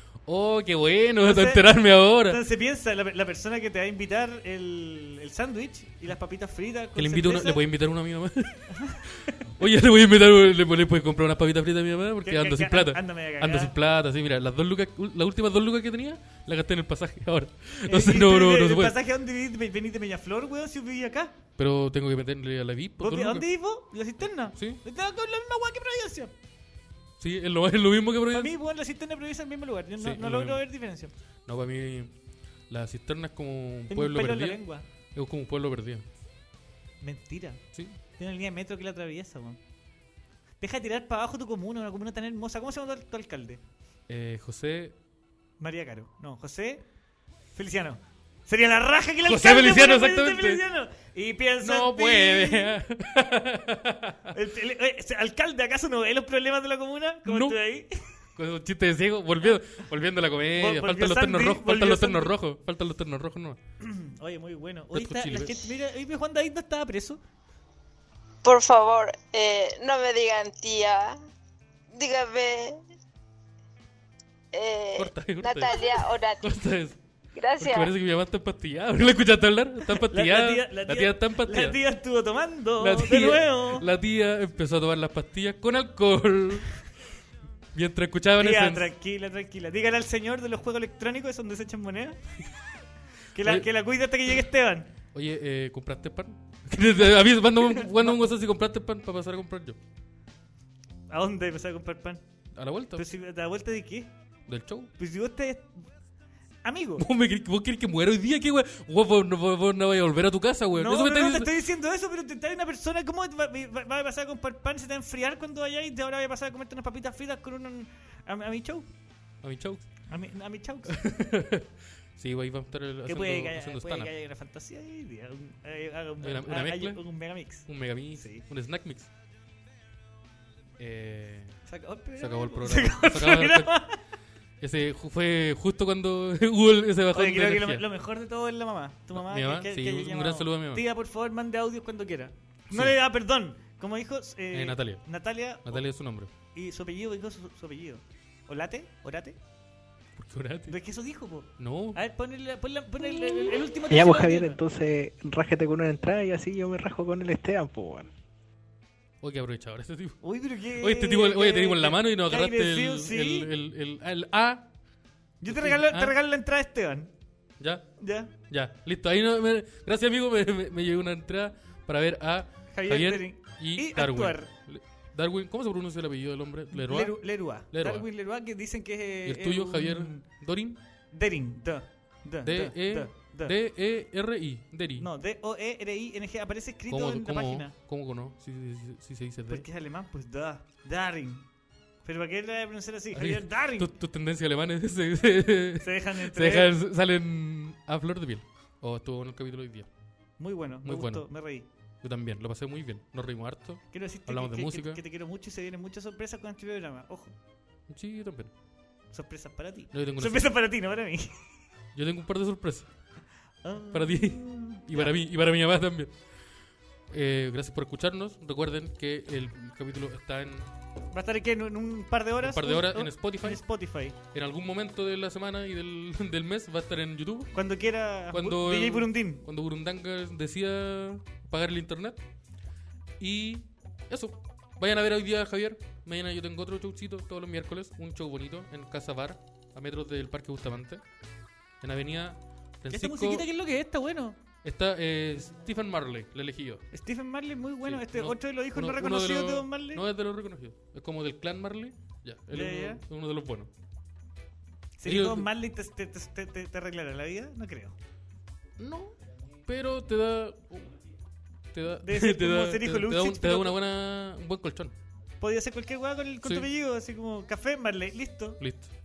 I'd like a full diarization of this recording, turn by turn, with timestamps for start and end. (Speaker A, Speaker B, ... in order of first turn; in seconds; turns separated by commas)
Speaker A: 0.3-2.4, Speaker B: 1.2-7.6, Speaker A: 7.0-18.9, Speaker B: 8.7-9.4, Speaker B: 12.2-13.7, Speaker B: 17.9-21.3, Speaker A: 21.6-23.5, Speaker B: 23.0-26.3, Speaker A: 24.5-24.8, Speaker A: 27.2-28.5, Speaker B: 28.3-31.1, Speaker A: 30.0-30.6, Speaker A: 31.5-32.1, Speaker A: 32.7-34.6, Speaker B: 33.9-34.9, Speaker A: 35.1-36.0, Speaker B: 37.0-37.6, Speaker B: 38.2-39.6, Speaker B: 40.6-43.6, Speaker A: 44.1-45.0, Speaker B: 45.6-46.8, Speaker B: 47.6-52.8, Speaker A: 49.2-50.6, Speaker A: 51.6-54.3, Speaker B: 54.3-57.9, Speaker A: 57.3-57.6, Speaker A: 58.4-63.6, Speaker B: 60.6-62.4, Speaker B: 63.8-67.2, Speaker A: 64.9-65.7, Speaker C: 68.4-71.2, Speaker C: 71.9-72.8, Speaker C: 74.5-76.4, Speaker A: 75.0-77.0, Speaker C: 77.3-77.9, Speaker A: 77.6-81.8, Speaker B: 80.0-83.9, Speaker A: 82.8-86.8, Speaker A: 87.7-88.9, Speaker B: 88.4-92.2, Speaker B: 93.3-94.9, Speaker A: 93.4-93.7, Speaker A: 95.1-99.8, Speaker B: 97.6-98.2, Speaker B: 101.1-102.2, Speaker A: 102.6-103.0, Speaker B: 103.0-104.1, Speaker A: 104.5-104.9, Speaker B: 105.0-105.8, Speaker B: 106.6-107.0, Speaker A: 107.0-111.5, Speaker B: 110.7-118.9, Speaker A: 119.4-119.8, Speaker B: 120.1-121.0, Speaker A: 120.9-124.1, Speaker B: 123.1-128.4, Speaker A: 126.2-127.0, Speaker A: 127.6-129.1, Speaker A: 130.8-131.6, Speaker B: 131.7-134.0, Speaker A: 132.2-133.7, Speaker A: 134.6-137.8, Speaker B: 137.1-145.8, Speaker A: 139.1-140.8, Speaker A: 142.7-143.0, Speaker A: 144.5-145.1, Speaker A: 145.7-146.3, Speaker B: 146.5-149.4, Speaker A: 150.2-150.8, Speaker B: 150.7-154.6, Speaker A: 151.6-152.0, Speaker D: 153.9-158.1, Speaker A: 159.2-160.2, Speaker B: 160.2-163.5, Speaker A: 160.8-164.7, Speaker B: 165.4-167.1, Speaker A: 165.5-166.2, Speaker A: 167.6-178.1, Speaker B: 168.0-168.3, Speaker B: 172.7-174.5, Speaker B: 176.7-180.2, Speaker A: 179.3-180.8, Speaker B: 181.1-183.5, Speaker A: 182.5-185.1, Speaker B: 185.0-187.7, Speaker A: 186.9-189.7, Speaker B: 189.5-191.4, Speaker B: 192.1-193.9, Speaker A: 193.1-199.9, Speaker B: 195.8-196.7, Speaker B: 200.4-201.7, Speaker A: 200.8-201.3, Speaker A: 202.0-205.0, Speaker B: 203.9-207.4, Speaker A: 207.9-208.5, Speaker B: 209.1-211.3, Speaker A: 209.9-210.5, Speaker A: 211.9-212.9, Speaker B: 213.6-215.2, Speaker A: 213.9-216.1, Speaker A: 217.1-220.7, Speaker B: 221.1-224.2, Speaker A: 222.4-223.6, Speaker A: 224.2-227.5, Speaker B: 227.5-229.4, Speaker A: 228.3-232.2, Speaker A: 233.2-241.0, Speaker A: 241.8-243.4, Speaker B: 242.9-244.4, Speaker A: 244.6-246.8, Speaker B: 246.9-250.0, Speaker A: 247.8-253.7, Speaker B: 252.5-253.0, Speaker B: 255.0-258.0, Speaker A: 255.1-255.5, Speaker A: 258.8-261.0, Speaker A: 261.7-264.9, Speaker B: 262.0-263.8, Speaker B: 265.4-268.6, Speaker A: 268.6-268.9